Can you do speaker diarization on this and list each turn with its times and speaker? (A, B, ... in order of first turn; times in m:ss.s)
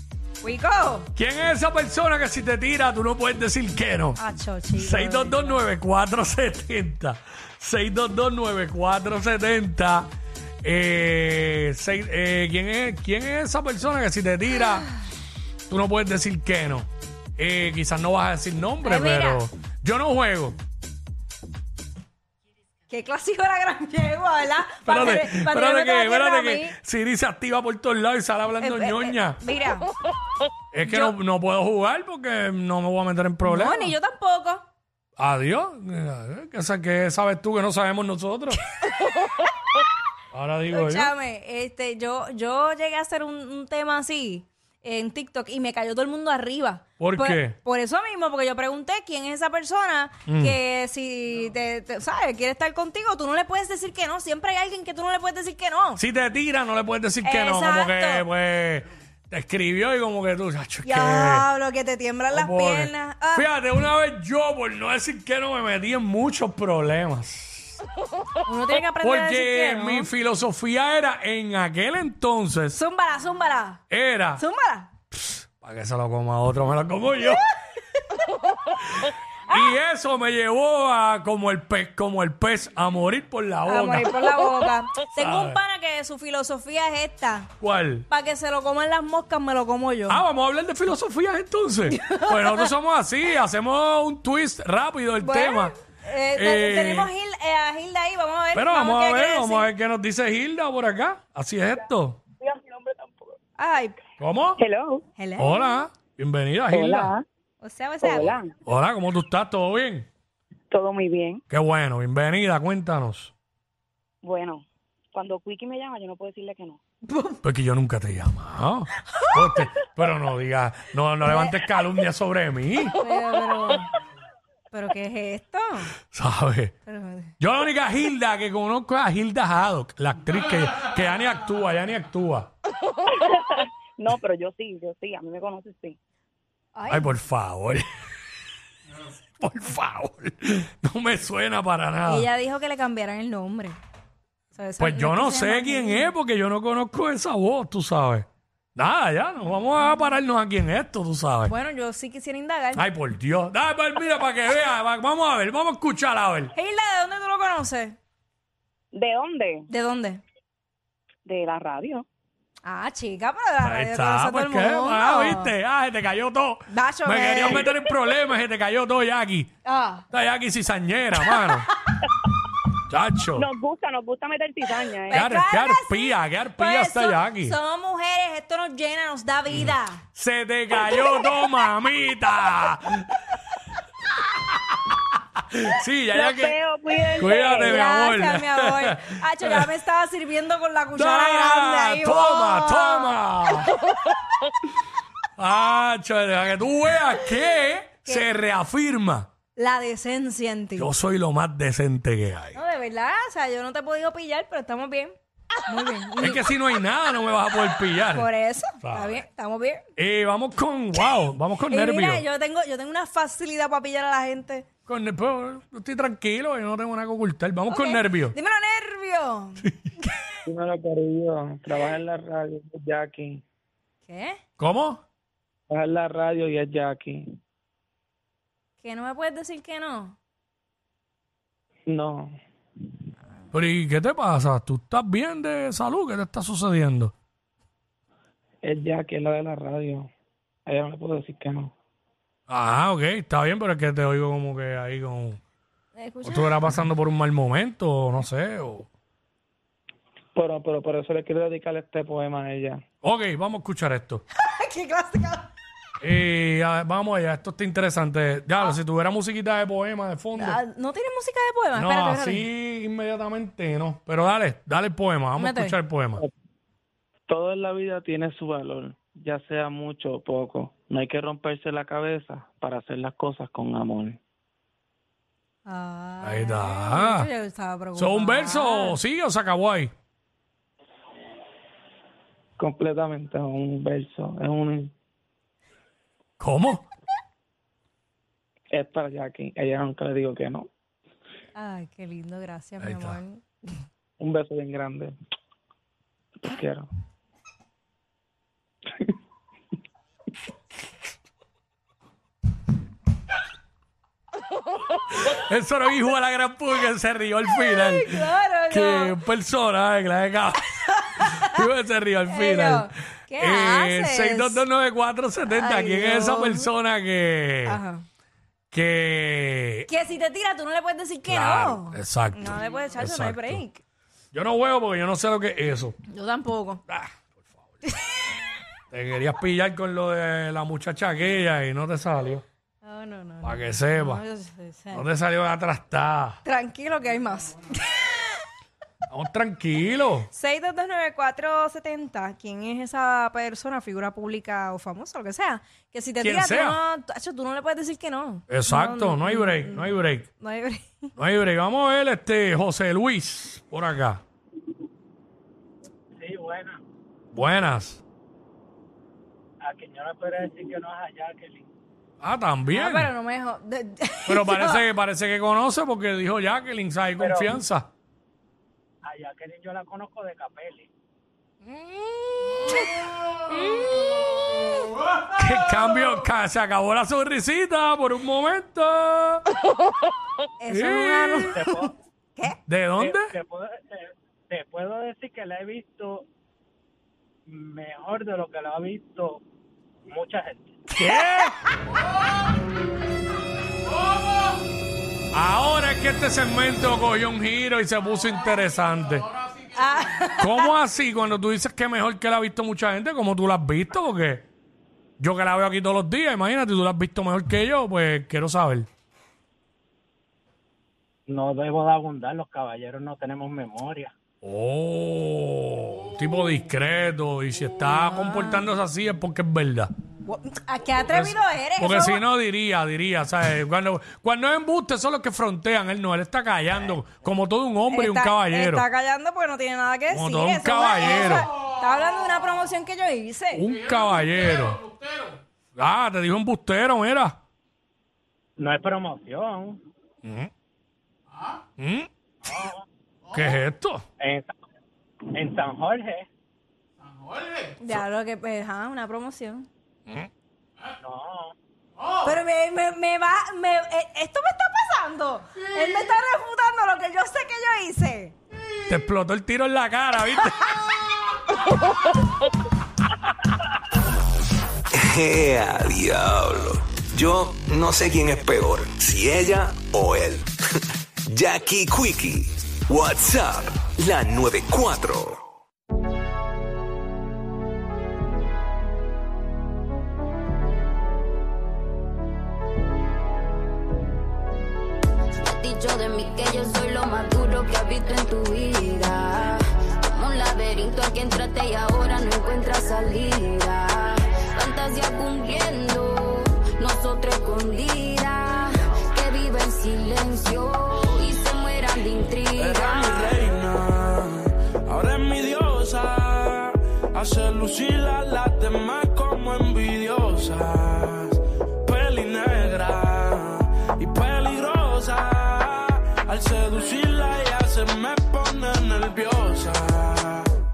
0:00.4-0:01.1 A
0:01.2-0:04.2 B
0:04.2-0:05.6 A
0:04.8-0:10.1 B
0:10.6-0:14.9 B
0:15.7-0:20.6 B
0:18.8-0:19.4 A
0:22.9-0:26.8 A
0:24.8-0:29.4 B
0:28.6-0:29.9 A
0:30.7-0:33.9 B
0:30.8-0:31.1 A
0:33.4-0:34.6 A
0:35.2-0:38.6 B
0:40.3-0:41.1 B
0:40.7-0:56.0 A
0:47.0-0:47.6 B
0:50.3-0:50.6 B
0:56.0-1:01.5 B
0:57.2-0:58.3 A
1:00.8-1:03.5 A
1:02.3-1:07.8 B
1:08.4-1:10.1 A
1:09.0-1:12.8 B
1:12.7-1:13.8 A
1:13.9-1:14.4 B
1:14.4-1:14.9 A
1:15.1-1:17.5 B
1:19.0-1:24.3 B
1:23.7-1:27.5 A
1:25.2-1:25.6 B
1:27.6-1:28.1 B
1:28.1-1:30.2 A
1:30.1-1:35.7 B
1:31.9-1:32.7 A
1:35.2-1:39.7 A
1:36.3-1:37.1 B
1:38.5-1:42.2 B
1:42.4-1:43.4 C
1:43.6-1:44.0 A
1:44.2-1:44.6 B
1:44.6-1:45.0 C
1:45.2-1:45.8 A
1:45.4-1:47.1 B
1:46.7-1:47.2 C
1:47.6-1:48.4 A
1:48.0-1:48.5 C
1:48.7-1:50.1 B
1:50.7-1:51.4 C
1:51.5-1:53.3 B
1:54.2-1:56.8 C
1:57.1-1:57.4 A
1:57.4-2:03.0 B
2:01.2-2:01.6 A
2:03.0-2:03.9 A
2:04.7-2:05.9 A
2:06.1-2:06.7 B
2:06.9-2:07.3 A
2:07.4-2:12.5 B
2:13.0-2:16.0 C
2:16.8-2:17.1 A
2:16.9-2:17.9 B
2:19.4-2:22.3 B
2:22.1-2:23.8 A
2:24.5-2:26.1 A
2:24.8-2:31.5 B
2:31.5-2:32.8 A
2:32.8-2:36.5 B
2:36.5-2:38.0 A
2:38.9-2:39.7 C
2:39.7-2:40.2 A
2:41.3-2:42.1 C
2:42.6-2:45.5 A
2:43.6-2:49.5 B
2:46.7-2:47.7 A
2:49.6-2:50.0 A
2:50.1-2:51.7 B
2:52.9-2:53.5 B
2:53.3-2:55.2 C
2:55.1-3:00.0 A
2:55.1-2:57.6 B
2:59.5-3:03.2 B
3:05.5-3:06.6 B
3:06.1-3:07.8 C
3:07.2-3:09.7 B
3:07.5-3:13.1 A
3:11.0-3:13.8 B
3:15.4-3:19.3 B
3:19.6-3:20.9 A
3:20.8-3:22.6 B
3:22.6-3:25.2 A
3:25.7-3:26.4 A
3:26.2-3:28.3 B
3:28.0-3:29.8 A
3:28.8-3:29.2 B
3:30.0-3:32.2 B
3:31.7-3:34.7 A
3:34.9-3:38.4 B
3:37.7-3:39.6 A
3:40.5-3:43.4 D
3:44.0-3:44.4 A
3:44.6-3:45.0 B
3:45.7-3:47.2 D
3:48.8-3:50.2 A
3:51.9-3:52.3 D
3:53.5-3:57.1 B
3:58.6-4:00.1 D
4:00.7-4:01.7 D
4:02.5-4:05.4 B
4:06.0-4:06.6 A
4:06.2-4:08.9 B
4:10.4-4:12.8 D
4:13.0-4:14.2 B
4:14.4-4:15.5 A
4:16.0-4:20.6 B
4:20.4-4:22.5 A
4:21.8-4:26.2 B
4:25.4-4:25.8 A
4:27.3-4:34.2 D
4:35.7-4:39.0 A
4:36.2-4:37.3 B
4:38.0-4:39.9 B
4:42.6-4:44.9 D
4:46.4-4:46.8 B
4:48.7-4:50.7 D
4:51.6-4:53.4 A
4:52.8-4:53.2 B
4:54.2-4:55.1 D
4:56.4-4:56.9 D
5:05.2-5:17.8 B
5:07.7-5:09.2 A
5:12.3-5:14.6 A
5:15.5-5:16.7 A
5:17.7-5:18.0 A
5:18.7-5:19.9 B
5:19.9-5:23.8 A
5:21.3-5:23.6 B
5:24.3-5:26.0 B
5:26.1-5:26.8 A
5:26.9-5:27.2 B
5:28.9-5:32.4 B
5:32.8-5:35.1 A
5:33.4-5:34.2 B
5:34.9-5:36.4 B
5:36.4-5:38.0 A
5:39.1-5:40.3 B
5:40.3-5:50.9 A
5:46.2-5:46.8 B
5:48.5-5:50.3 B
5:51.2-5:54.2 B
5:56.2-5:56.8 E
5:57.3-5:58.0 B
5:59.6-6:01.7 E
6:02.2-6:03.1 B
6:02.7-6:04.8 A
6:04.3-6:07.9 B
6:07.2-6:07.5 E
6:09.0-6:10.9 E
6:11.7-6:12.8 B
6:15.3-6:19.5 B
6:20.6-6:22.6 A
6:20.7-6:21.6 B
6:22.7-6:23.3 B
6:23.0-6:26.3 E
6:27.5-6:29.4 E
6:30.1-6:30.7 E
6:30.9-6:31.6 B
6:35.3-6:39.3 B
6:39.8-6:40.7 A
6:40.4-6:44.5 B
6:45.2-6:48.9 B
6:51.3-6:54.1 E
6:54.4-6:59.9 B
6:58.1-6:58.6 A
7:00.2-7:02.2 A
7:01.0-7:08.9 B
7:07.9-7:13.8 A
7:10.1-7:11.5 B
7:13.5-7:14.9 B
7:15.8-7:17.4 B
7:18.6-7:19.8 E
7:20.2-7:20.5 B
7:21.8-7:22.1 B
7:22.5-7:22.8 E
7:23.3-7:24.0 B
7:24.2-7:24.5 E
7:25.3-7:26.3 E
7:27.8-7:29.7 A
7:31.0-7:31.6 E
7:32.2-7:38.4 A
7:38.9-7:40.8 B
7:45.4-7:46.6 F
7:47.4-7:50.4 F
7:51.3-7:55.4 F
8:05.4-8:09.6 G
8:10.1-8:23.3 G
8:22.6-8:40.5 H